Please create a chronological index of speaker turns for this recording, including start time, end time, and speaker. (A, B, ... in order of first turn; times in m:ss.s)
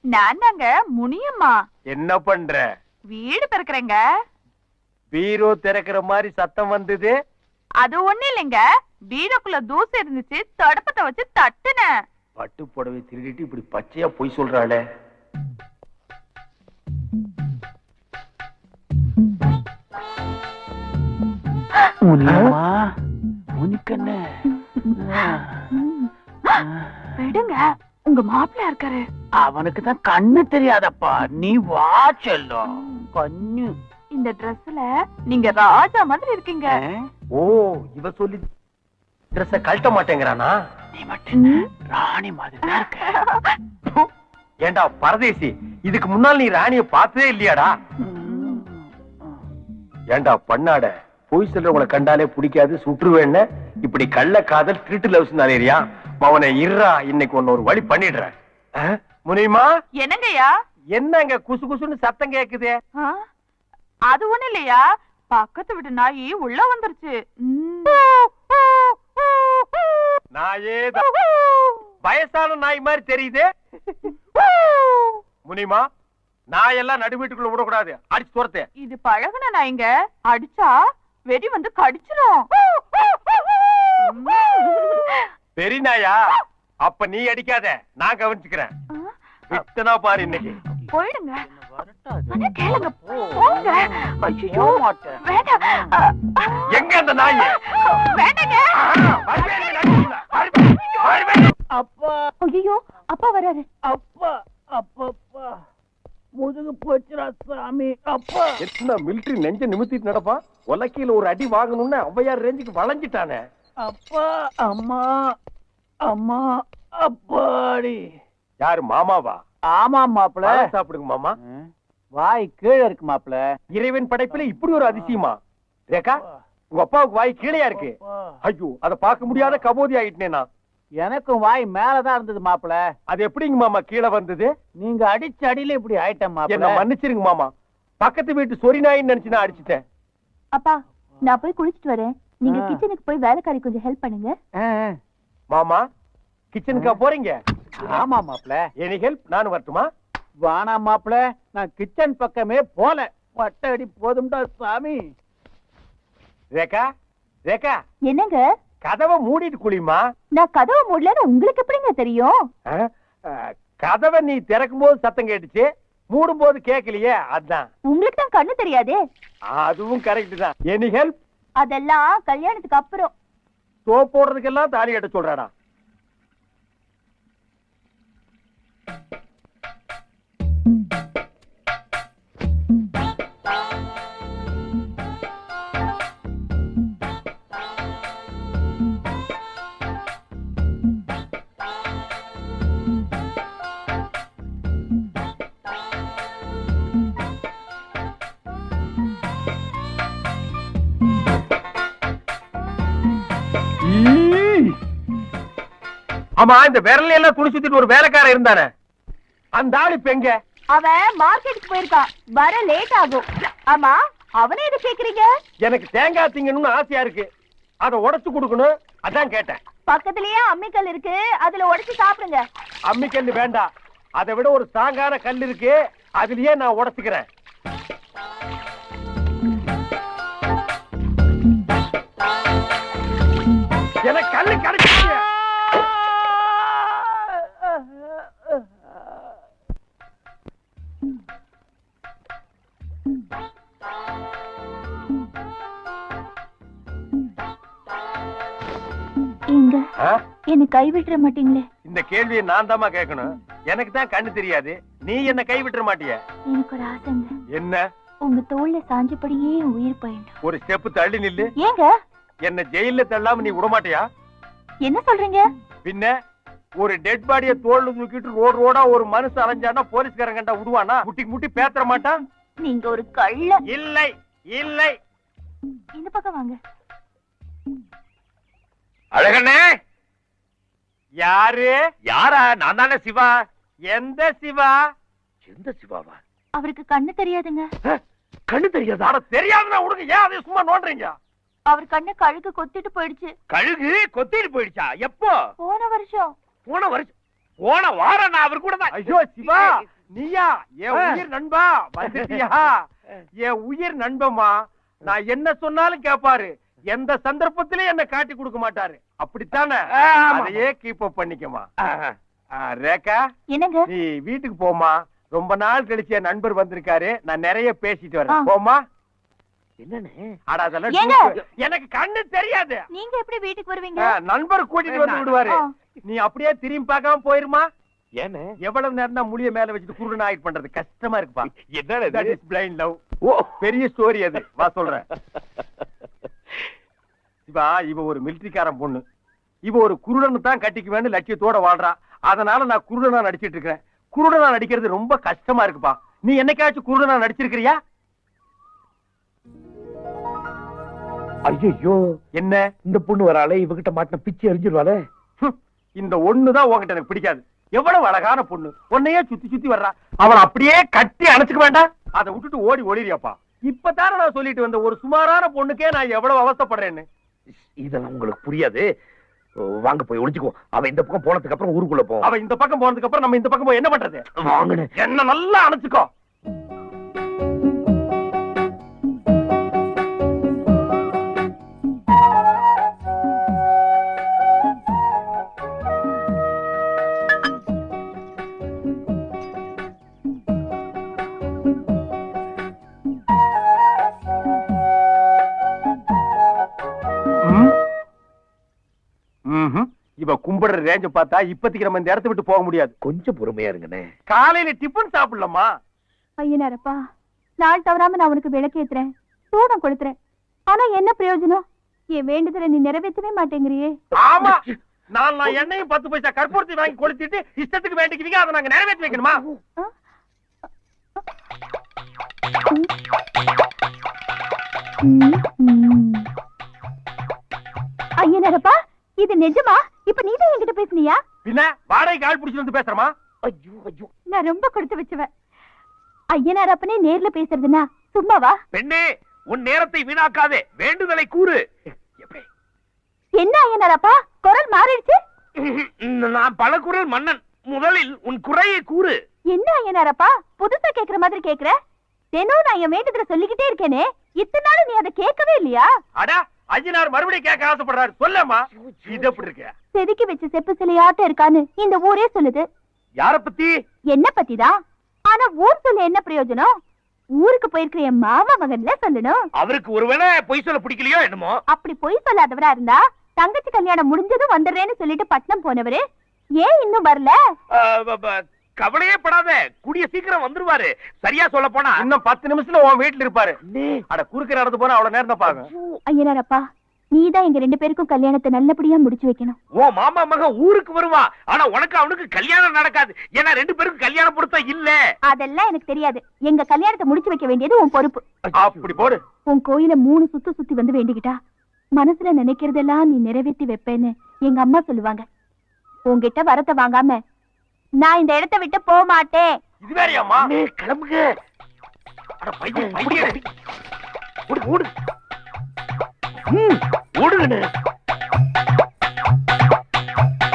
0:00.1-0:01.5 A
0:01.9-0:02.6 B
0:03.1-0:04.0 A
0:05.1-0:07.1 B
0:07.8-0:11.9 A
0:12.4-0:14.8 B
0:22.0-0:22.9 C
0:23.6-0:24.4 C
0:24.9-0:25.7 C
0:26.8-0:27.1 C
0:27.2-0:27.6 A
0:28.0-0:29.0 D
0:29.4-0:33.8 C
0:34.1-0:36.8 A
0:36.7-0:37.1 C
0:37.4-0:38.4 B
0:39.3-0:40.6 B
0:40.9-0:43.2 C
0:42.7-0:43.4 A
0:44.6-0:47.7 B
0:48.0-0:48.8 C
0:50.1-0:59.7 B
1:00.0-1:00.5 A
1:00.9-1:02.7 B
1:04.1-1:08.2 A
1:10.3-1:11.1 B
1:12.0-1:13.4 B
1:15.4-1:15.8 B
1:16.5-1:18.7 B
1:18.8-1:20.7 A
1:21.3-1:22.5 A
1:24.1-1:25.2 A
1:25.6-1:26.2 B
1:26.8-1:28.7 B
1:29.5-1:30.6 B
1:30.9-1:31.5 A
1:31.4-1:35.9 C
1:32.3-1:36.6 A
1:36.7-1:37.6 B
1:37.7-1:38.6 A
1:38.8-1:41.5 B
1:41.7-1:42.2 C
1:42.4-1:43.6 D
1:43.8-1:45.6 C
1:46.4-1:48.5 C
1:48.6-1:53.4 B
1:53.8-1:55.2 C
1:56.0-1:58.0 C
1:58.6-1:59.4 B
1:59.7-2:00.6 C
2:00.4-2:01.3 B
2:02.2-2:03.4 C
2:03.7-2:05.4 B
2:04.5-2:05.1 C
2:05.9-2:06.2 B
2:06.7-2:10.5 B
2:07.8-2:08.1 C
2:11.0-2:12.8 C
2:13.1-2:14.5 B
2:14.8-2:16.8 C
2:16.5-2:19.8 B
2:20.5-2:24.3 D
2:22.5-2:22.8 C
2:24.6-2:25.0 C
2:25.5-2:25.8 B
2:26.5-2:27.4 B
2:26.7-2:27.0 C
2:27.8-2:28.6 C
2:28.8-2:29.8 B
2:30.4-2:35.0 C
2:36.5-2:36.8 B
2:37.4-2:37.8 B
2:38.1-2:38.4 D
2:38.8-2:40.0 B
2:40.3-2:42.4 D
2:42.7-2:47.7 B
2:47.9-2:49.0 D
2:49.5-2:51.2 B
2:51.6-2:53.1 D
2:53.9-2:55.5 B
3:23.8-3:24.8 B
3:26.4-3:28.7 B
3:29.5-3:30.3 B
3:30.7-3:35.3 D
3:35.6-3:37.2 B
3:37.8-3:39.6 B
3:39.9-3:42.4 D
3:42.9-3:47.2 B
3:54.0-3:55.2 B
4:09.5-4:09.8 D
4:10.5-4:11.6 D
4:11.8-4:16.2 B
4:16.5-4:17.3 D
4:17.5-4:17.8 B
4:18.2-4:20.3 D
4:20.4-4:21.5 B
4:21.6-4:21.9 D
4:22.4-4:24.0 B
4:24.8-4:25.4 D
4:25.8-4:26.1 B
4:26.8-4:32.2 B
4:32.6-4:33.6 D
4:33.7-4:35.0 B
4:36.0-4:36.6 D
4:39.1-4:39.6 E
4:41.2-4:41.8 B
4:42.1-4:43.3 E
4:43.9-4:44.7 B
4:45.4-4:46.2 E
4:46.6-4:47.7 D
4:47.9-4:49.1 E
4:49.0-4:51.1 B
4:51.7-4:53.3 D
4:53.5-4:55.4 E
4:55.6-4:56.3 D
4:56.7-4:59.8 E
4:58.9-5:02.8 B
5:00.9-5:01.2 E
5:02.0-5:02.4 E
5:03.4-5:04.5 B
5:05.0-5:11.7 B
5:09.9-5:10.6 E
5:11.8-5:12.1 E
5:12.6-5:13.2 B
5:13.5-5:13.9 D
5:13.9-5:18.8 B
5:19.8-5:20.4 E
5:20.5-5:22.8 B
5:20.9-5:21.3 D
5:22.9-5:24.1 D
5:24.0-5:27.7 B
5:24.9-5:25.4 E
5:28.2-5:28.5 E
5:28.6-5:31.5 B
5:31.4-5:32.4 E
5:32.1-5:33.0 B
5:33.2-5:33.6 E
5:33.6-5:35.0 B
5:35.1-5:35.4 E
5:37.5-5:39.0 B
5:39.6-5:47.8 B
5:51.5-5:52.0 E
5:52.3-5:52.6 B
5:52.8-5:55.0 E
5:55.4-6:07.0 B
6:07.8-6:08.8 E
6:09.8-6:12.3 E
6:12.2-6:14.2 B
6:14.4-6:14.9 E
6:15.0-6:16.1 B
6:39.5-6:42.9 B
6:43.0-6:44.1 E
6:44.3-6:45.7 B
6:46.4-6:47.0 D
6:47.6-6:50.1 D
6:50.7-6:51.6 D
6:52.1-6:53.9 D
6:54.2-6:54.6 B
6:55.1-6:59.4 B
6:59.1-6:59.6 E
7:05.0-7:06.2 D
7:08.2-7:11.2 D
7:11.4-7:13.1 B
7:13.4-7:14.1 E
7:14.3-7:15.3 D
7:16.3-7:18.6 D
7:18.7-7:21.6 E
7:22.2-7:22.4 E
7:23.4-7:25.2 D
7:25.6-7:29.2 E
7:29.5-7:31.7 D
7:32.3-7:35.9 D
7:36.2-7:39.7 B
7:38.7-7:39.4 E
7:39.9-7:42.6 D
7:43.2-7:43.7 E
7:44.1-7:44.7 D
7:45.3-7:46.7 D
7:47.4-7:49.4 D
7:49.6-7:51.6 E
7:51.7-7:56.0 D
7:56.6-7:57.3 D
7:57.7-8:02.0 E
8:02.0-8:03.6 B
8:03.7-8:04.0 E
8:04.1-8:05.7 B
8:05.4-8:06.0 E
8:06.1-8:09.6 D
8:09.8-8:15.0 E
8:15.3-8:18.2 D
8:18.4-8:19.1 E
8:18.6-8:19.2 B
8:19.5-8:21.4 D
8:22.0-8:25.2 D
8:26.1-8:27.2 D
8:28.0-8:29.5 D
8:29.8-8:30.5 B
8:30.4-8:31.2 E
8:32.4-8:33.4 E
8:32.7-8:33.4 B
8:34.5-8:34.9 E
8:36.5-8:37.7 E